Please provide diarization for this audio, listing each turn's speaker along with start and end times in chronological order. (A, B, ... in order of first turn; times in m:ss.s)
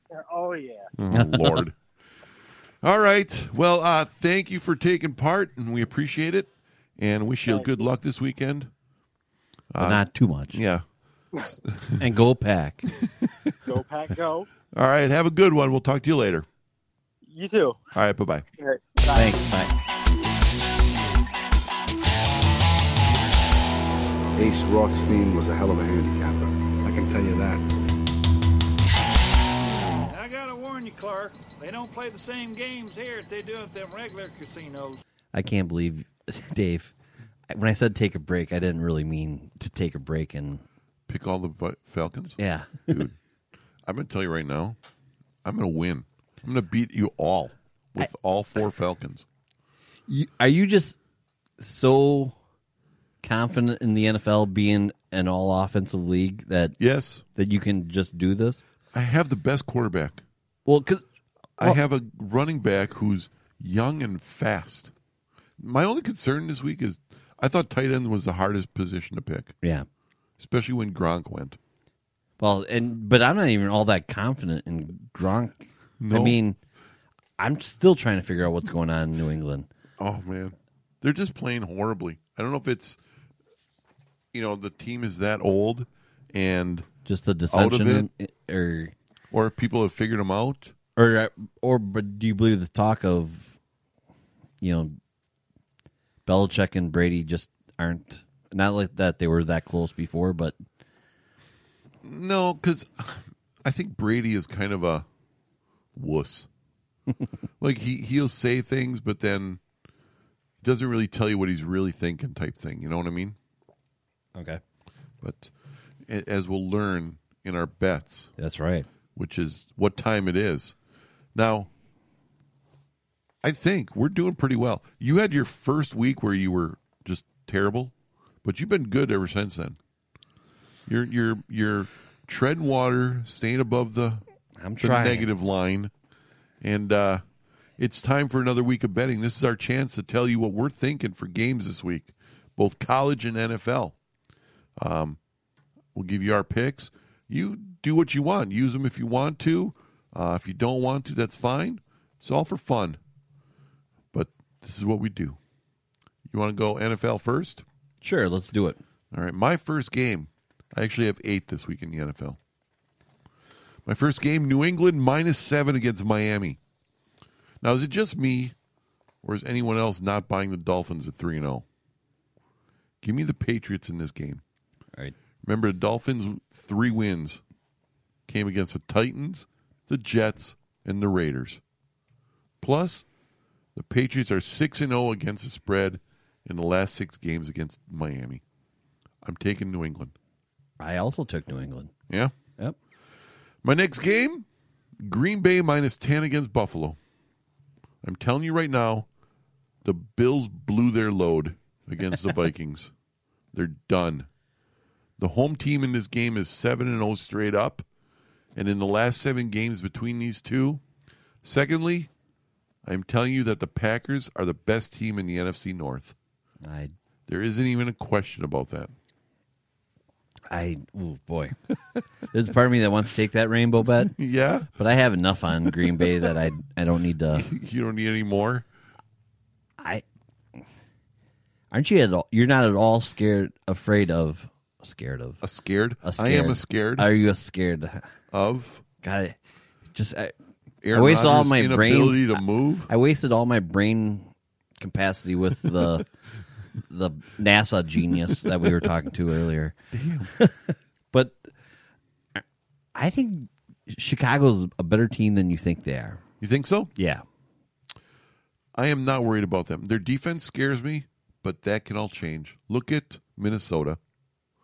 0:00.1-0:00.9 A
0:01.0-0:01.8 B
0:01.1-0:01.6 C
0:02.8-0:08.7 B
0:09.7-0:10.8 B
0:09.8-0:10.6 C
0:11.7-0:12.0 B
0:12.0-0:12.9 C
0:13.2-0:13.5 B
0:13.6-0:14.5 A
0:14.7-0:16.4 B
0:17.2-0:17.8 A
0:17.9-0:18.4 B
0:18.6-0:19.4 A
0:19.1-0:19.7 C
0:24.4-0:27.6 D
0:30.0-0:35.0 E
0:35.3-0:36.9 C
0:37.5-0:40.6 C
0:41.1-0:43.2 B
0:42.4-0:43.0 C
0:43.8-0:44.8 B
0:45.4-0:49.2 B
0:50.1-0:51.0 C
0:51.6-0:52.4 C
0:53.2-0:56.8 C
0:56.8-0:57.2 B
0:57.3-0:58.6 C
0:58.9-1:00.2 B
1:00.6-1:01.0 C
1:01.6-1:04.9 B
1:05.6-1:09.6 B
1:09.6-1:09.9 C
1:10.4-1:11.6 B
1:12.4-1:16.6 C
1:16.0-1:16.4 B
1:17.4-1:19.7 C
1:20.0-1:23.0 B
1:24.3-1:26.9 B
1:27.0-1:28.9 C
1:27.5-1:28.1 B
1:29.3-1:30.7 B
1:31.0-1:33.5 C
1:34.6-1:35.0 C
1:36.2-1:40.6 C
1:42.0-1:45.0 B
1:45.9-1:46.5 B
1:47.6-1:49.6 B
1:50.6-1:53.4 B
1:54.3-1:54.6 C
1:55.2-1:55.5 B
1:56.1-1:58.3 B
1:58.4-1:58.9 C
1:59.1-2:00.7 B
2:01.3-2:01.7 B
2:03.4-2:07.9 B
2:08.4-2:09.8 B
2:10.9-2:14.2 B
2:14.6-2:15.3 C
2:14.8-2:15.9 B
2:16.6-2:17.2 B
2:17.8-2:24.0 B
2:24.8-2:25.2 B
2:25.9-2:33.0 B
2:34.1-2:35.4 B
2:36.3-2:37.6 B
2:38.0-2:38.8 C
2:39.1-2:42.4 B
2:43.8-2:46.6 B
2:47.6-2:48.5 B
2:49.2-2:51.6 B
2:53.0-2:54.4 B
2:55.4-2:57.4 B
2:58.3-3:01.6 B
3:02.6-3:03.0 B
3:03.7-3:08.4 B
3:09.2-3:10.1 B
3:10.8-3:11.9 C
3:13.6-3:14.4 B
3:15.0-3:17.0 B
3:18.0-3:19.1 B
3:19.8-3:22.9 B
3:23.5-3:24.3 B
3:25.2-3:27.8 B
3:28.5-3:30.8 B
3:31.4-3:32.1 B
3:32.8-3:36.1 B
3:36.6-3:36.9 C
3:37.3-3:38.9 B
3:40.5-3:41.6 C
3:42.3-3:44.2 C
3:44.0-3:44.7 B
3:44.7-3:47.5 C
3:47.3-3:48.6 B
3:51.7-3:55.4 C
3:55.4-3:57.1 B
3:56.0-3:58.0 C
3:58.3-3:58.8 B
3:59.0-3:59.4 C
3:59.9-4:00.3 C
4:00.8-4:02.9 B
4:00.9-4:04.3 C
4:04.8-4:06.1 C
4:06.8-4:09.8 C
4:09.9-4:10.3 B
4:10.3-4:11.4 C
4:12.9-4:16.2 C
4:16.4-4:16.9 B
4:17.0-4:17.2 C
4:18.7-4:24.0 B